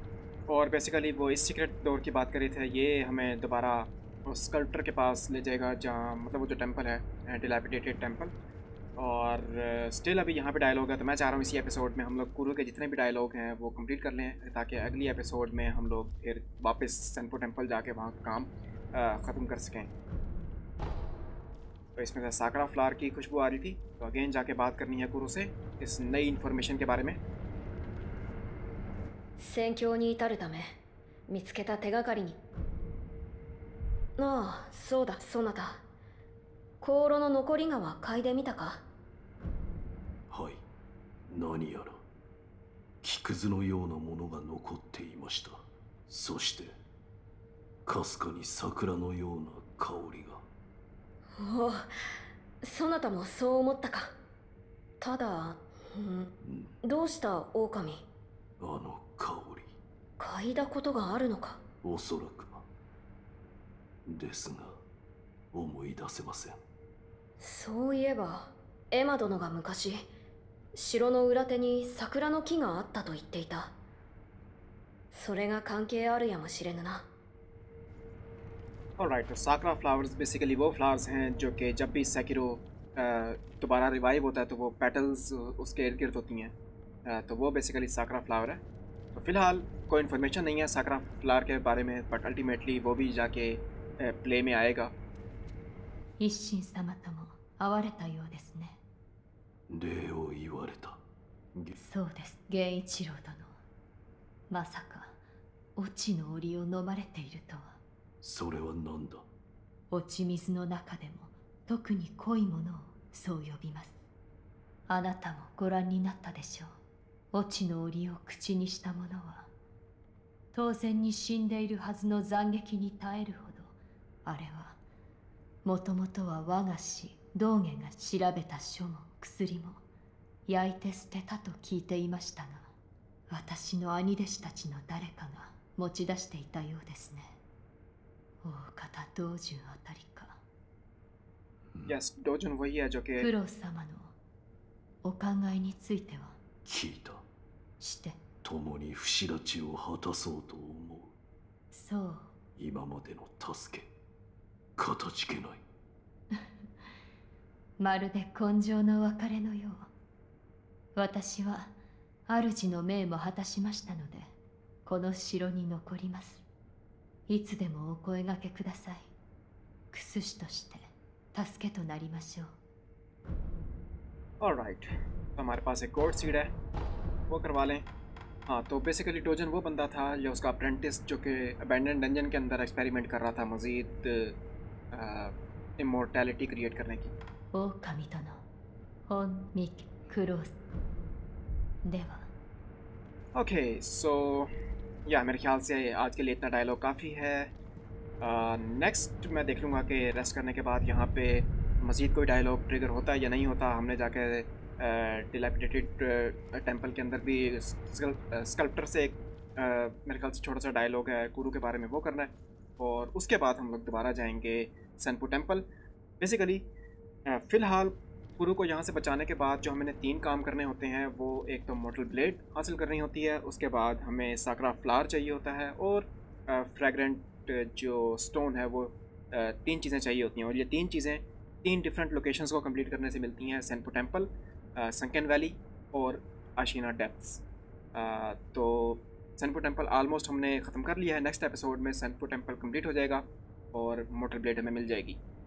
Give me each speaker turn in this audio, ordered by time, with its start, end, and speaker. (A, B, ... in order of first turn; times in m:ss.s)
0:00.5-0:08.3 A
0:09.0-0:19.9 A
0:22.0-0:27.2 A
0:29.4-0:30.8 B
0:31.3-0:32.4 B
0:34.2-0:35.8 B
0:36.8-0:38.8 B
0:40.3-0:40.6 C
0:41.3-0:42.0 C
0:43.0-0:46.8 C
0:47.8-0:50.4 C
0:51.4-0:51.9 B
0:52.6-0:54.1 B
0:55.0-0:58.0 B
0:56.4-0:56.7 C
0:58.6-0:59.7 C
1:00.2-1:01.6 B
1:01.8-1:02.6 C
1:04.0-1:04.8 C
1:05.5-1:06.6 C
1:07.4-1:10.1 B
1:10.7-1:13.7 B
1:15.1-1:17.1 B
1:19.0-1:28.6 A
1:29.1-1:34.9 A
1:36.2-1:38.8 D
1:39.7-1:41.0 C
1:41.8-1:43.5 D
1:44.5-1:45.2 D
1:45.8-1:47.8 D
1:48.2-1:49.2 C
1:49.9-1:54.0 D
1:54.9-1:56.7 D
1:57.3-1:59.5 D
2:00.5-2:03.7 D
2:04.2-2:04.8 D
2:05.6-2:09.8 D
2:10.5-2:12.7 D
2:13.3-2:17.4 D
2:18.4-2:20.4 D
2:21.8-2:23.3 A
2:23.2-2:24.1 D
2:25.0-2:26.4 D
2:26.6-2:27.2 C
2:27.8-2:28.2 D
2:28.4-2:31.2 C
2:31.7-2:32.3 D
2:32.6-2:33.9 C
2:34.8-2:35.6 C
2:37.8-2:39.9 D
2:40.9-2:41.7 D
2:42.3-2:44.3 D
2:44.8-2:46.4 D
2:47.3-2:49.1 D
2:49.9-2:52.5 D
2:54.4-2:56.5 A
2:57.3-2:57.8 A
2:58.5-3:04.4 A
3:04.9-3:07.1 A
3:07.5-3:08.4 D
3:09.1-3:10.5 D
3:11.8-3:12.3 D
3:13.3-3:14.5 A
3:15.0-3:17.5 A
3:18.2-3:35.6 A
3:36.2-3:36.6 A
3:37.2-3:57.4 A
3:57.9-4:05.2 A